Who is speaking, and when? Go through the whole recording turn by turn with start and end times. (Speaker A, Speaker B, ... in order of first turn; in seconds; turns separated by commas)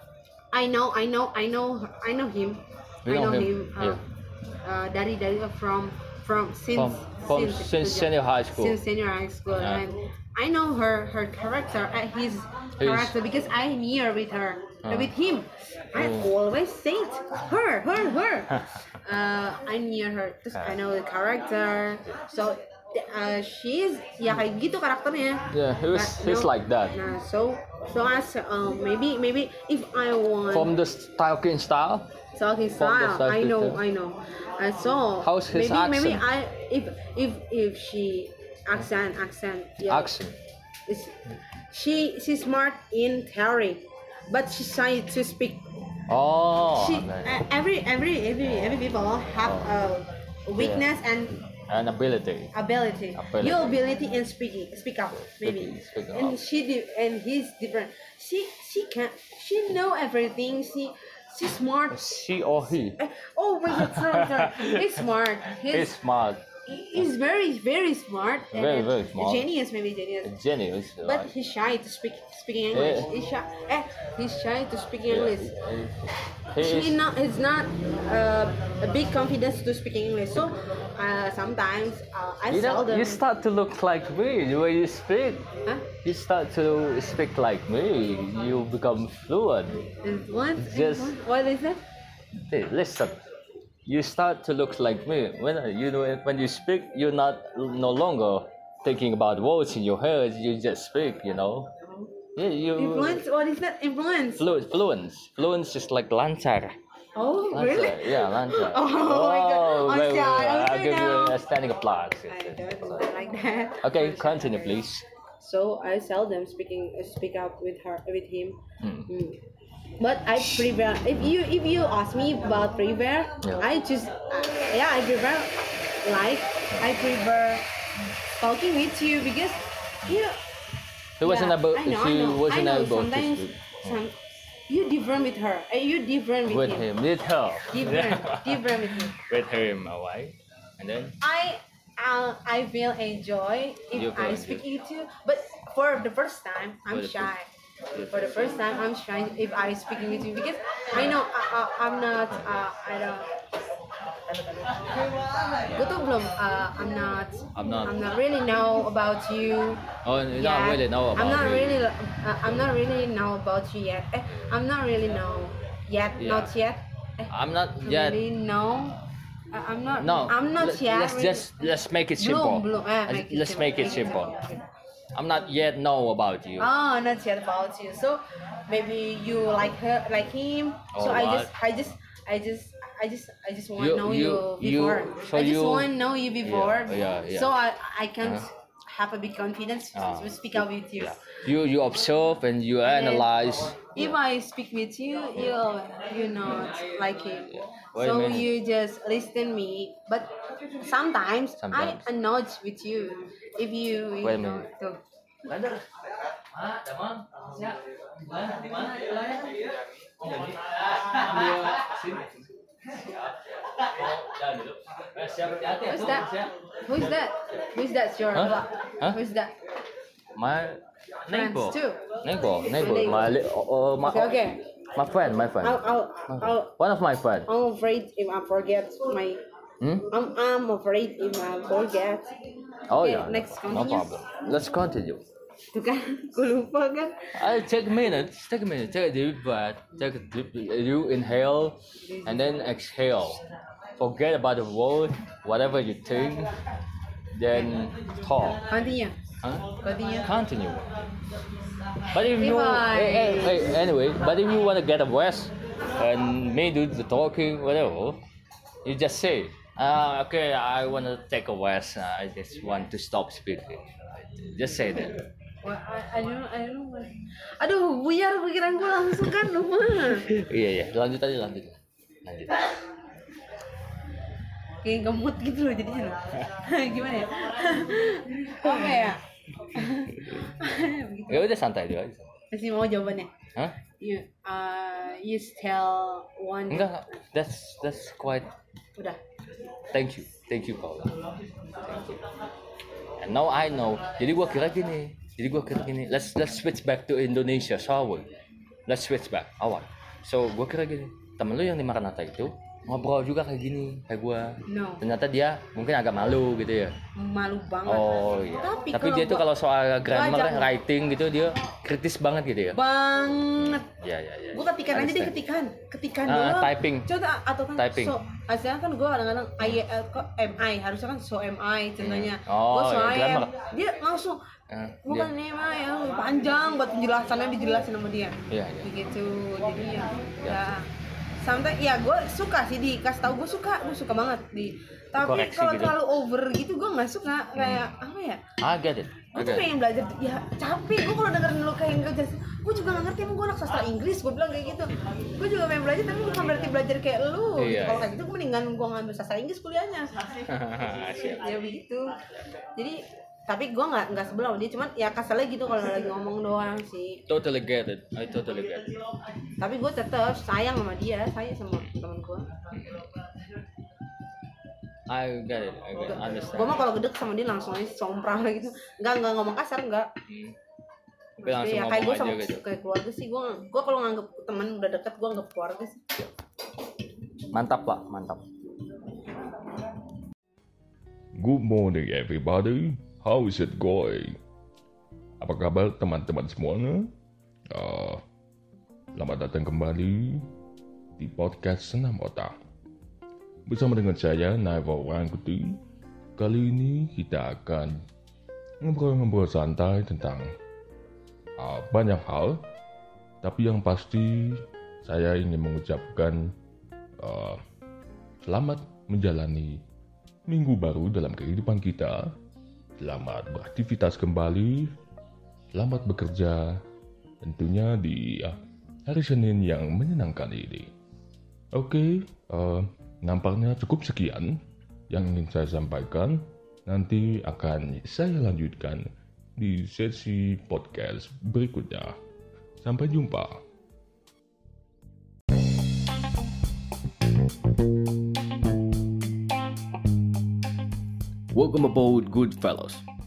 Speaker A: 0.5-4.0, Speaker B: 3.0-4.0, Speaker A: 4.6-30.7, Speaker B: 6.7-8.8, Speaker B: 9.5-9.8, Speaker B: 12.8-13.1, Speaker B: 14.8-15.1, Speaker B: 15.9-16.3, Speaker B: 18.5-18.8, Speaker B: 25.5-26.9, Speaker B: 30.5-32.1, Speaker A: 32.3-40.1, Speaker B: 32.8-33.8, Speaker B: 35.2-36.2, Speaker B: 39.8-40.4, Speaker A: 40.9-41.2, Speaker A: 41.7-45.6, Speaker B: 46.1-47.4, Speaker A: 46.7-51.5, Speaker B: 49.4-49.7, Speaker B: 50.5-50.9, Speaker B: 51.7-52.5, Speaker A: 52.5-62.1, Speaker B: 53.1-53.8, Speaker B: 55.2-56.4, Speaker B: 61.9-63.0, Speaker A: 62.8-66.0, Speaker B: 63.7-66.4, Speaker A: 66.7-70.3, Speaker B: 68.5-69.5, Speaker B: 70.2-71.3, Speaker A: 71.0-75.5, Speaker B: 72.7-73.1, Speaker B: 75.1-77.0, Speaker A: 76.6-83.2, Speaker B: 82.5-85.5, Speaker B: 86.0-89.9, Speaker A: 90.0-91.8, Speaker B: 90.6-91.2, Speaker B: 92.3-93.2, Speaker B: 93.8-101.7, Speaker A: 101.8-102.1, Speaker B: 102.3-103.2, Speaker A: 102.7-104.4, Speaker B: 104.4-106.8, Speaker A: 107.2-111.4, Speaker B: 107.5-113.0, Speaker A: 112.3-114.8, Speaker B: 113.8-115.0, Speaker A: 115.4-119.4, Speaker B: 118.8-119.1, Speaker A: 120.0-127.7, Speaker A: 128.4-130.4, Speaker B: 131.2-134.0, Speaker A: 131.2-134.2, Speaker A: 134.7-136.9, Speaker B: 136.4-141.2, Speaker A: 137.7-139.2, Speaker A: 141.2-147.5, Speaker B: 143.9-144.6, Speaker B: 146.9-147.3, Speaker B: 147.9-148.5, Speaker A: 148.1-153.3, Speaker B: 150.9-151.2, Speaker A: 155.7-169.0, Speaker B: 157.5-158.0, Speaker B: 160.0-161.8, Speaker B: 166.2-166.5, Speaker B: 167.3-168.2, Speaker A: 169.5-174.6, Speaker B: 170.0-174.4, Speaker B: 175.1-176.7, Speaker A: 176.6-191.2, Speaker B: 180.9-181.5, Speaker B: 183.8-187.5, Speaker B: 189.9-194.2, Speaker A: 192.8-193.3, Speaker A: 193.9-205.0, Speaker B: 197.5-198.5, Speaker B: 201.6-202.1, Speaker B: 204.2-204.7, Speaker B: 205.4-205.9, Speaker B: 206.5-216.5, Speaker A: 215.8-216.3, Speaker A: 216.8-219.6, Speaker B: 218.3-219.2, Speaker B: 220.3-227.5, Speaker A: 221.3-223.5, Speaker A: 224.0-224.6, Speaker A: 225.6-226.7, Speaker A: 227.4-229.4, Speaker B: 229.8-230.1, Speaker A: 230.1-232.4, Speaker B: 232.9-235.2, Speaker A: 232.9-234.2, Speaker A: 235.7-237.5, Speaker B: 237.3-243.4, Speaker B: 244.0-246.5, Speaker B: 247.3-248.7, Speaker A: 247.5-247.8, Speaker A: 248.6-250.3, Speaker B: 249.4-250.9, Speaker B: 252.1-258.2, Speaker A: 252.1-253.8, Speaker B: 258.8-265.2, Speaker A: 265.6-270.3, Speaker B: 270.1-272.7, Speaker A: 274.8-281.5, Speaker B: 281.3-282.3, Speaker A: 282.5-283.3, Speaker A: 283.9-287.0, Speaker B: 286.7-288.5, Speaker B: 289.9-292.2, Speaker B: 293.2-298.3, Speaker B: 298.9-307.0, Speaker A: 304.6-305.0, Speaker A: 307.1-309.5, Speaker B: 307.9-312.8, Speaker A: 310.0-310.7, Speaker A: 312.7-313.9, Speaker B: 313.4-315.4, Speaker A: 314.5-324.4, Speaker B: 316.2-317.1, Speaker B: 317.7-318.1, Speaker B: 322.0-323.5, Speaker B: 324.7-325.3, Speaker A: 325.0-330.9, Speaker B: 328.5-328.9, Speaker B: 330.4-330.7, Speaker A: 331.4-338.4, Speaker B: 335.2-336.0, Speaker B: 337.6-337.9, Speaker B: 338.6-339.7, Speaker A: 339.3-350.4, Speaker B: 347.6-348.1, Speaker B: 350.4-351.5, Speaker A: 351.3-352.2, Speaker A: 352.7-357.2, Speaker B: 357.3-358.9, Speaker A: 359.6-362.5, Speaker B: 362.7-363.1, Speaker B: 365.1-366.9, Speaker A: 366.5-370.1, Speaker B: 370.3-370.6, Speaker A: 371.4-376.0, Speaker B: 371.4-372.6, Speaker B: 377.5-378.4, Speaker C: 381.3-384.4, Speaker C: 385.4-387.1, Speaker C: 387.7-388.2, Speaker C: 389.1-390.5, Speaker C: 391.2-392.6, Speaker C: 393.6-395.8, Speaker C: 396.4-398.0, Speaker C: 398.8-400.5, Speaker C: 401.6-402.6, Speaker C: 403.4-406.5, Speaker C: 407.2-407.6, Speaker C: 408.4-409.8, Speaker C: 410.5-412.3, Speaker C: 413.0-414.9, Speaker C: 415.7-416.8, Speaker C: 417.4-420.9, Speaker C: 421.7-432.1, Speaker C: 432.8-433.6, Speaker B: 441.5-443.0